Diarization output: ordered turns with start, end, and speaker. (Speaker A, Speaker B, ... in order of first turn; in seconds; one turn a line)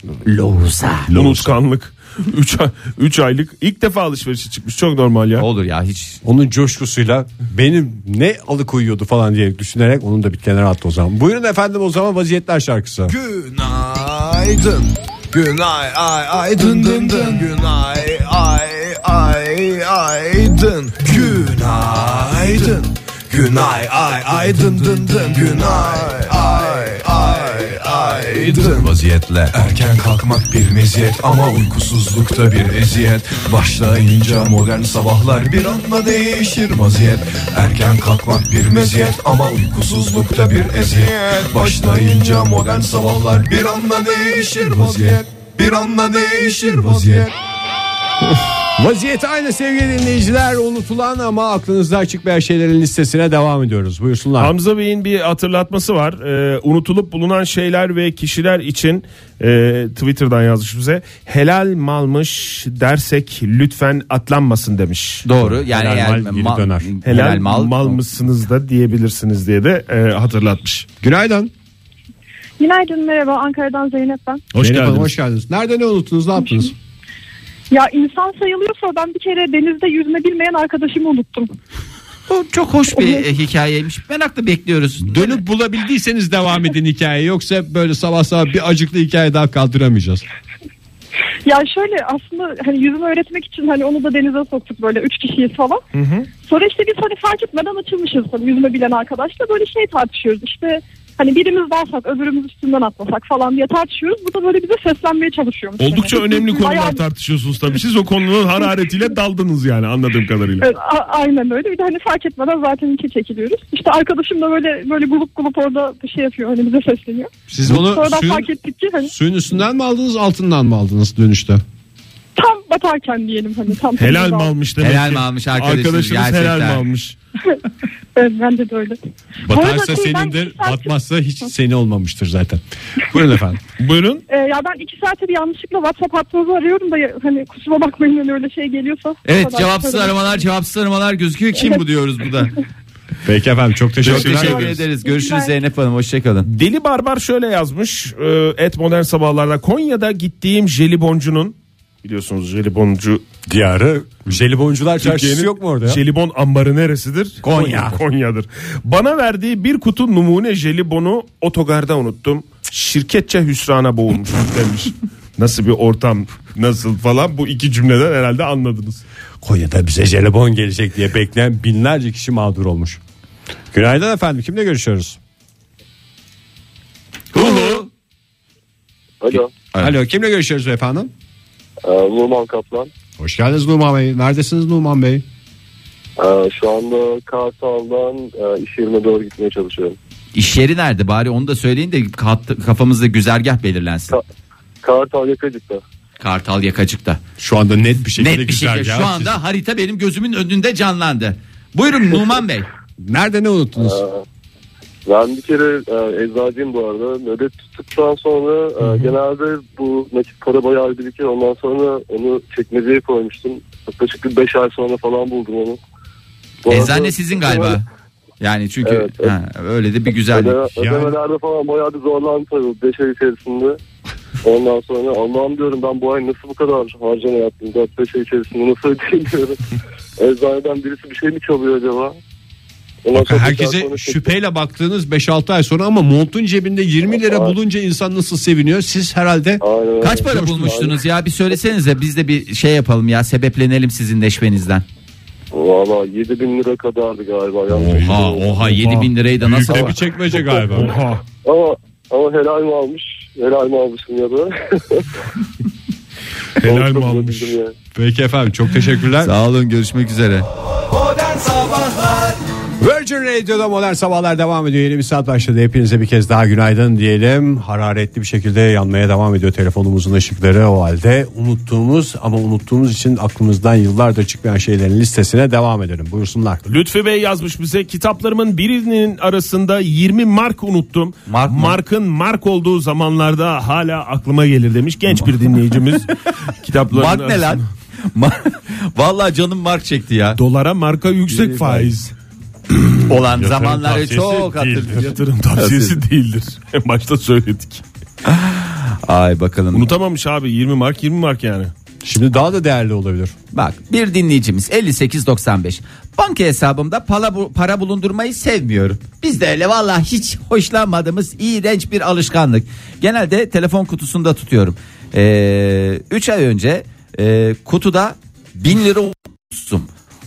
Speaker A: 0.2-1.4
Speaker B: 1.1-5.5
Speaker A: 5.4-6.2
Speaker C: 6.2-13.2
Speaker D: 13.1-47.3
Speaker C: 48.4-54.5
Speaker B: 54.4-65.2
Speaker A: 65.2-68.0
Speaker C: 65.4-66.9
Speaker B: 67.0-70.9
Speaker C: 71.0-71.5
Speaker E: 72.6-74.4
Speaker B: 74.5-75.1
Speaker C: 74.6-76.8
Speaker E: 77.7-81.5
Speaker A: 82.3-85.4
Speaker E: 83.0-83.2
Speaker C: 85.0-90.2
Speaker E: 91.5-95.8
Speaker B: 95.9-96.3
Speaker E: 96.5-107.0
Speaker B: 105.8-110.7
Speaker E: 110.6-119.1
Speaker C: 117.5-118.5
Speaker C: 119.1-121.6
Speaker E: 122.4-124.5
Speaker B: 124.0-127.2
Speaker A: 124.8-126.8
Speaker E: 128.2-130.9
Speaker C: 129.4-133.6
Speaker B: 133.8-134.2
Speaker E: 134.3-140.4
Speaker A: 139.2-142.5
Speaker C: 143.2-144.8
Speaker A: 144.0-146.5
Speaker B: 144.1-144.8
Speaker E: 145.0-145.5
Speaker B: 146.5-153.2
Speaker C: 153.5-156.0
Speaker B: 155.0-169.0
Speaker C: 157.4-158.0
Speaker C: 169.4-173.0
Speaker C: 173.7-175.2
Speaker A: 177.3-177.9
Speaker F: 179.2-179.5
Speaker A: 179.3-179.9
Speaker C: 179.8-181.1
Speaker F: 181.8-182.9
Speaker C: 183.2-185.2
Speaker F: 186.2-190.0
Speaker A: 190.3-194.2
Speaker F: 194.8-195.8
Speaker A: 196.2-197.2
Speaker C: 197.4-199.4
Speaker A: 198.2-202.7
Speaker C: 203.0-204.0
Speaker F: 203.8-204.2
Speaker F: 205.1-215.8
Speaker F: 216.6-217.8
Speaker A: 216.7-217.8
Speaker A: 218.4-220.6
Speaker F: 218.8-219.3
Speaker F: 220.3-223.8
Speaker C: 220.8-221.2
Speaker F: 224.4-229.6
Speaker F: 230.2-232.2
Speaker F: 233.0-234.3
Speaker C: 233.1-239.6
Speaker F: 237.2-237.5
Speaker F: 239.6-240.9
Speaker A: 240.0-244.8
Speaker C: 240.3-240.5
Speaker F: 245.5-248.5
Speaker C: 247.7-250.9
Speaker A: 247.8-250.0
Speaker B: 250.7-251.2
Speaker F: 251.4-255.1
Speaker B: 256.6-257.6
Speaker F: 256.6-257.7
Speaker C: 257.9-259.3
Speaker A: 259.2-260.5
Speaker D: 260.8-262.4
Speaker C: 262.8-276.6
Speaker B: 276.7-286.1
Speaker A: 281.3-281.8
Speaker B: 286.6-287.7
Speaker A: 286.9-287.6
Speaker A: 288.1-290.4
Speaker B: 290.4-292.1
Speaker A: 293.1-295.1
Speaker C: 293.2-295.1
Speaker B: 294.9-297.8
Speaker A: 295.6-296.0
Speaker A: 298.3-299.9
Speaker B: 299.7-301.7
Speaker C: 302.0-303.3
Speaker A: 303.5-319.9